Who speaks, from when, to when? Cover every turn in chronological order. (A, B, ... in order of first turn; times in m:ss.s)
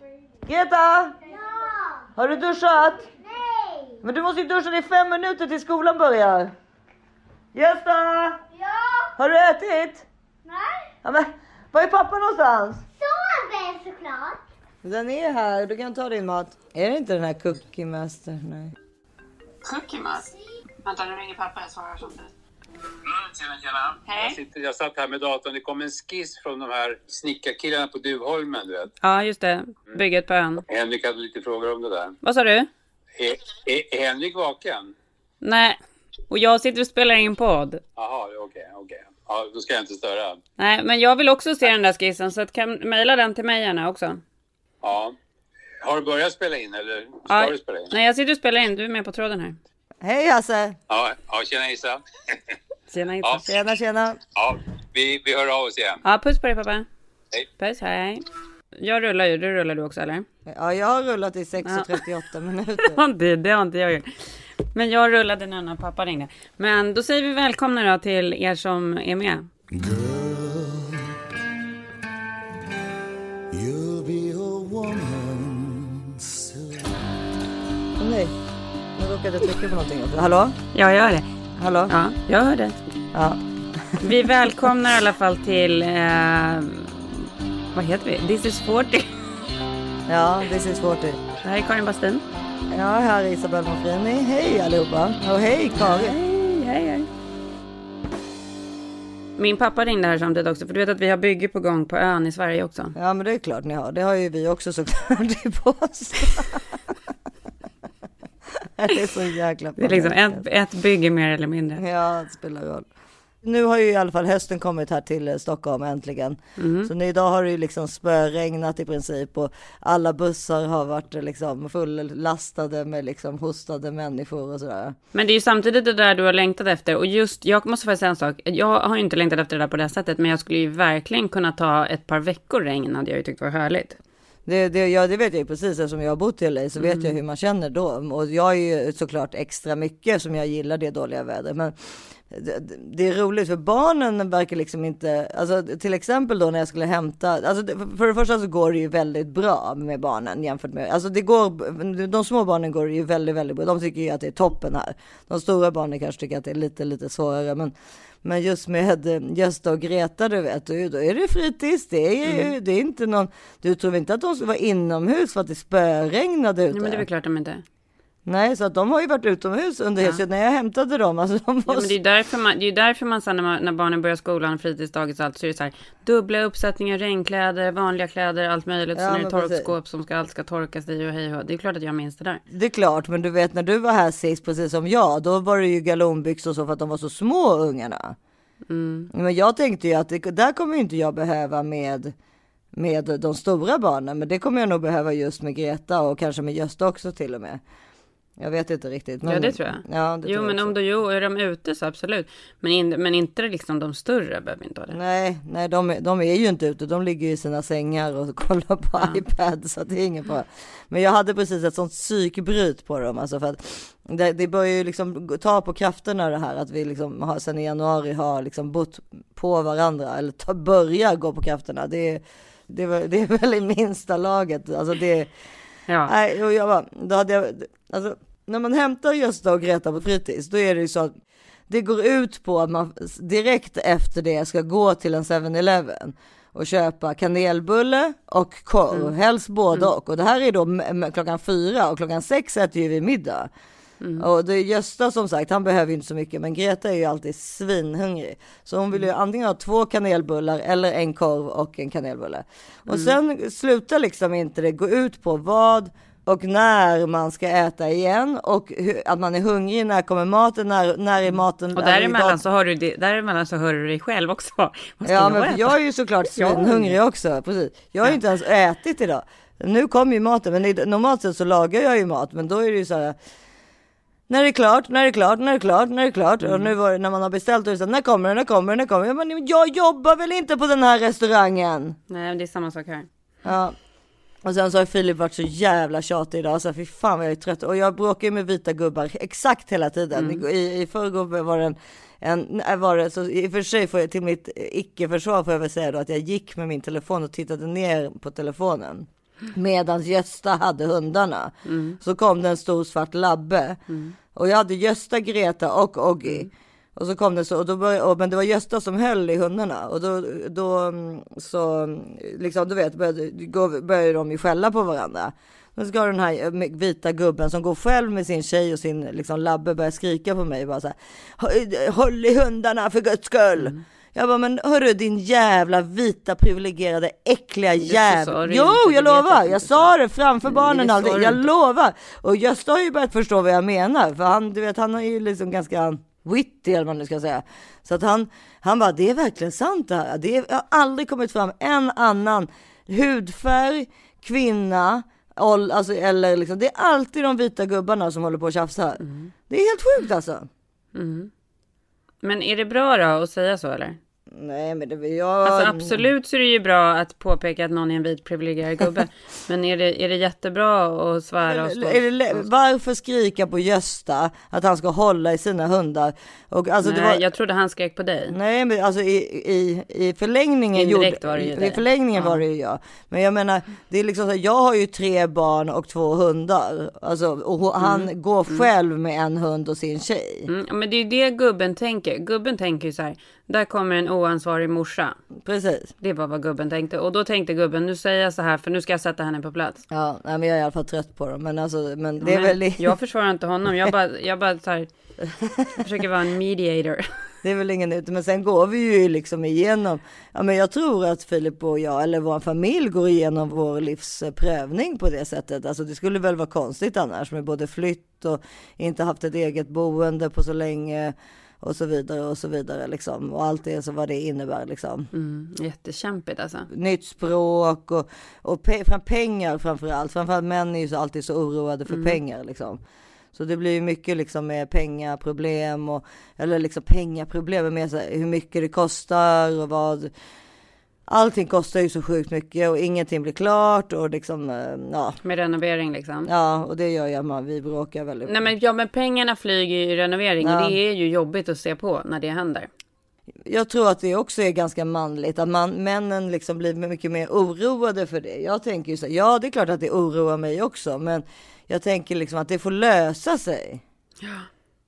0:00.4-0:01.2 A
0:01.2-0:02.1 B
0:02.2-0:03.1 A
0:03.2-0:04.0 B
0:04.0-0:06.5 A
0:07.5-0:08.4 A
0:08.6-0:09.1 B
0:09.2-0:10.0 A
0:11.0-0:12.8 A
0:13.0-0:14.4 B
0:14.8-0:18.7 A
0:19.6-0:20.3 C
0:20.8-0:22.3 C
0:23.3-0:28.9 D
0:24.0-0:24.4 C
0:29.0-0:30.6 C
0:30.7-0:32.1 D
0:32.2-0:32.7 C
0:33.2-0:34.9 D
0:35.4-0:35.8 C
0:36.3-0:37.8 C
0:38.0-0:40.4 D
0:40.6-0:44.2 C
0:44.8-0:45.1 D
0:45.8-0:47.9 D
0:47.3-0:49.6 C
0:50.0-0:50.8 A
0:50.9-0:52.0 D
0:52.9-0:53.5 C
0:53.4-0:54.2 A
0:54.4-0:56.0 D
0:56.0-0:56.8 C
0:57.6-0:58.2 C
0:58.8-1:00.2 C
1:00.5-1:03.0 A
1:01.6-1:02.0 C
1:02.8-1:09.5 C
1:09.8-1:10.8 E
1:13.6-1:16.5 E
1:18.0-1:18.3 A
1:19.0-1:20.6 A
1:20.7-1:21.2 C
1:21.6-1:21.9 A
1:21.9-1:22.7 C
1:23.1-1:24.0 A
1:24.0-1:29.1 C
1:30.1-1:31.2 A
1:31.4-1:32.2 C
1:32.7-1:36.1 A
1:35.8-1:37.1 C
1:39.4-1:42.9 C
1:43.0-1:46.6 A
1:48.6-1:50.4 A
1:49.8-1:51.8 C
1:51.8-1:52.9 A
1:53.4-2:04.9 A
1:56.6-1:56.9 C
2:05.1-2:14.0 C
2:14.4-2:21.7 A
2:16.8-2:17.1 C
2:22.3-2:47.0 A
2:42.2-2:42.5 C
2:46.7-2:47.6 C
2:48.2-2:51.9 A
2:51.7-3:02.4 C
2:58.9-2:59.7 A
3:02.5-3:08.2 A
3:08.7-3:09.1 C
3:09.1-3:12.1 A
3:12.7-3:17.6 A
3:18.4-3:20.7 A
3:19.2-3:25.0 C
3:24.9-3:45.3 A
3:45.9-3:46.1 C
3:46.0-3:51.1 A
3:51.7-4:03.5 A
4:04.0-4:04.2 C
4:04.2-4:22.4 A
4:12.9-4:13.1 C
4:21.7-4:25.8 C
4:25.0-4:33.1 A
4:26.3-4:26.9 C
4:34.3-4:42.0 A
4:36.4-4:36.7 C
4:42.1-4:43.0 C
4:43.4-4:43.7 A
4:44.4-5:03.8 A
4:50.1-4:50.4 C
5:01.6-5:02.0 C
5:03.9-5:04.2 C
5:04.3-5:50.5 A
5:06.2-5:06.5 C
5:23.6-5:23.8 C
5:27.8-5:29.9 C
5:30.4-5:31.5 C
5:49.0-5:49.3 C
5:50.9-5:51.3 C
5:52.2-5:54.0 C
5:54.3-5:55.9 A
5:55.4-6:02.4 C
6:01.4-6:07.2 A
6:06.8-6:08.3 C
6:08.3-6:20.5 A
6:10.7-6:12.4 C
6:17.8-6:18.7 C
6:20.5-6:25.2 C
6:25.4-6:25.9 A
6:26.0-6:29.8 C
6:29.9-6:32.9 A
6:32.2-6:34.9 C
6:35.3-6:35.8 A
6:35.8-6:37.1 C
6:37.4-6:55.1 A
6:55.1-6:56.7 C
6:56.7-7:02.8 A
7:01.9-7:02.2 C
7:03.3-7:10.1 A
7:11.1-7:15.2 A
7:15.2-7:16.3 C
7:16.2-7:18.3 A
7:18.3-7:22.7 C
7:20.4-7:20.8 A
7:23.4-7:33.8 A
7:34.2-7:34.5 C